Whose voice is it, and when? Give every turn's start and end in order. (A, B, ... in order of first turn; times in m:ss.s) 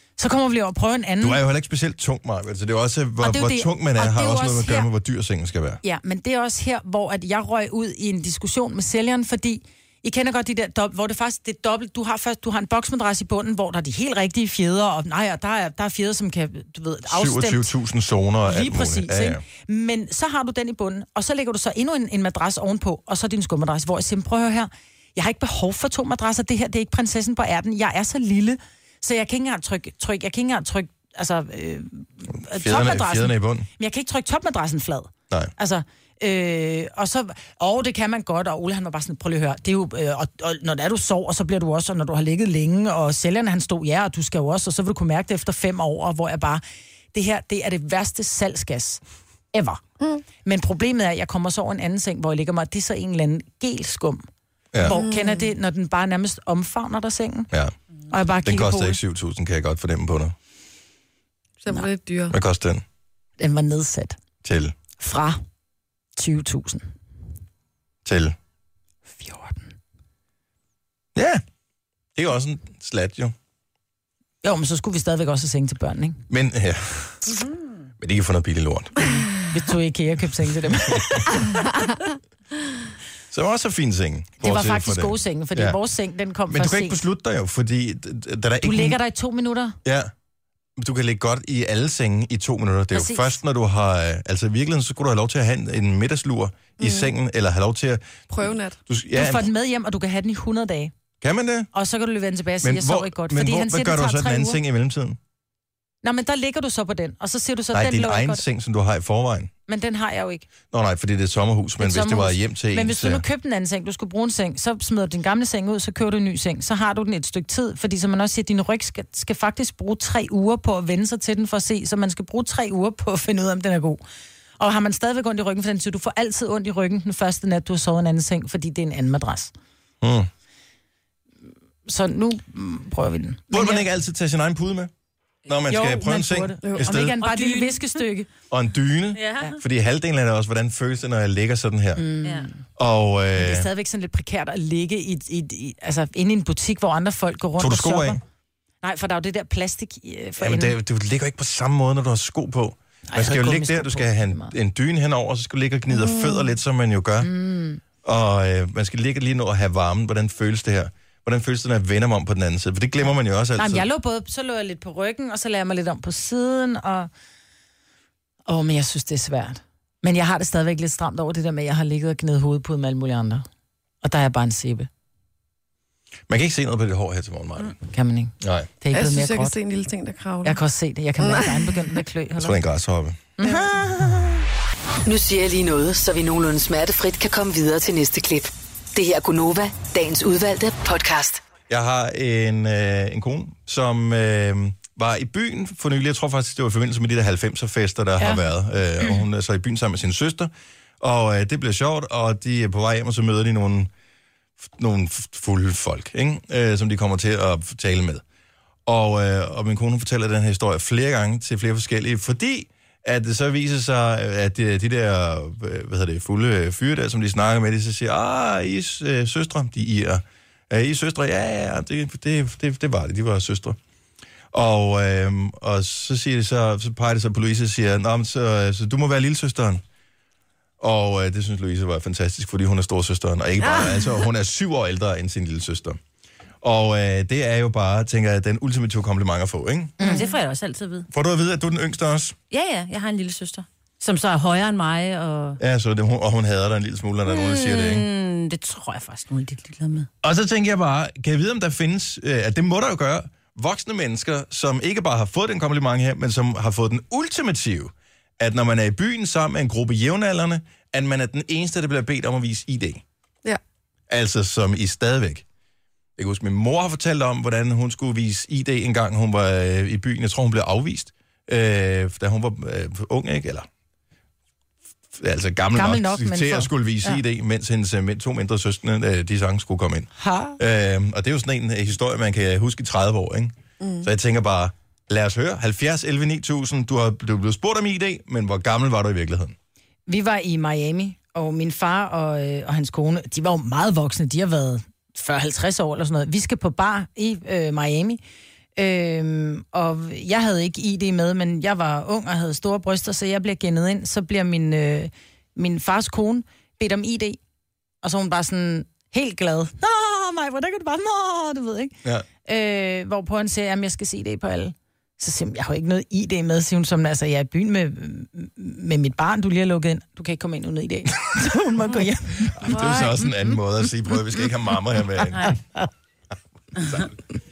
0:00.2-0:01.4 A
0:01.2-0:05.8 B
0:03.2-0:04.9 A
0:05.8-0:17.7 A
0:17.1-0:19.4 B
0:18.4-0:46.6 A
0:32.3-0:33.7 B
0:47.1-0:49.0 A
0:49.5-0:49.8 A
0:50.4-0:54.3 A
0:54.7-0:55.0 B
0:54.8-0:57.5 A
0:54.8-0:55.5 C
0:58.1-0:59.0 A
0:58.4-1:00.4 B
1:01.6-1:02.4 C
1:02.3-1:02.8 B
1:03.4-1:04.2 A
1:04.4-1:04.7 B
1:05.0-1:05.4 A
1:06.2-1:06.9 A
1:08.0-1:08.4 B
1:09.1-1:09.7 A
1:11.1-1:11.4 B
1:12.1-1:13.3 B
1:14.4-1:16.2 A
1:16.3-1:17.4 B
1:18.0-1:19.1 B
1:19.5-1:21.4 A
1:20.6-1:21.3 B
1:23.3-1:25.8 B
1:24.4-1:27.0 A
1:26.5-1:29.0 B
1:28.6-1:29.8 A
1:29.8-1:30.1 B
1:30.8-1:38.1 B
1:32.9-1:33.4 A
1:36.8-1:37.1 C
1:38.3-1:38.8 C
1:38.9-1:39.5 B
1:39.1-1:40.9 A
1:41.2-1:41.7 B
1:41.7-1:44.6 A
1:42.6-1:45.2 B
1:46.0-1:48.4 A
1:47.7-1:49.5 B
1:49.7-1:50.4 A
1:50.7-1:53.2 B
1:51.8-2:04.0 A
2:04.6-2:09.5 A
2:10.0-2:10.3 B
2:11.9-2:13.8 A
2:13.5-2:14.9 B
2:15.5-2:17.2 B
2:15.7-2:18.3 A
2:16.6-2:16.9 C
2:17.2-2:18.0 D
2:18.5-2:22.1 B
2:19.2-2:19.6 D
2:22.0-2:22.5 A
2:22.2-2:22.5 D
2:22.8-2:23.7 B
2:23.4-2:28.2 A
2:27.6-2:28.2 B
2:28.8-2:30.8 A
2:30.4-2:37.3 B
2:33.1-2:34.5 A
2:35.9-2:36.5 C
2:37.2-2:37.8 A
2:38.0-2:43.8 B
2:43.6-2:47.1 A
2:48.5-2:53.5 A
2:54.0-2:54.9 A
2:56.3-2:57.8 B
2:57.9-2:59.5 A
2:58.4-2:58.7 B
2:58.9-3:00.6 C
3:00.4-3:02.6 A
3:01.2-3:02.0 C
3:02.4-3:03.2 B
3:03.4-3:04.4 A
3:05.1-3:11.4 E
3:11.7-3:23.9 B
3:24.7-3:28.2 B
3:28.8-3:43.8 B
3:44.5-3:49.8 B
3:50.8-3:56.0 B
3:53.7-3:54.1 C
3:56.6-4:00.0 B
4:00.0-4:00.2 A
4:00.0-4:01.1 D
4:01.1-4:02.4 B
4:02.5-4:05.6 D
4:05.6-4:08.1 B
4:07.2-4:10.1 D
4:10.2-4:23.0 B
4:24.1-4:25.4 B
4:26.2-4:33.7 B
4:35.2-4:49.6 B
4:35.7-4:37.2 A
4:40.2-4:40.6 A
4:43.8-4:44.1 C
4:50.1-4:58.2 A
4:58.8-5:07.4 A
5:08.0-5:11.9 A
5:12.4-5:22.6 A
5:22.5-5:25.6 B
5:22.7-5:23.2 C
5:26.8-5:27.2 B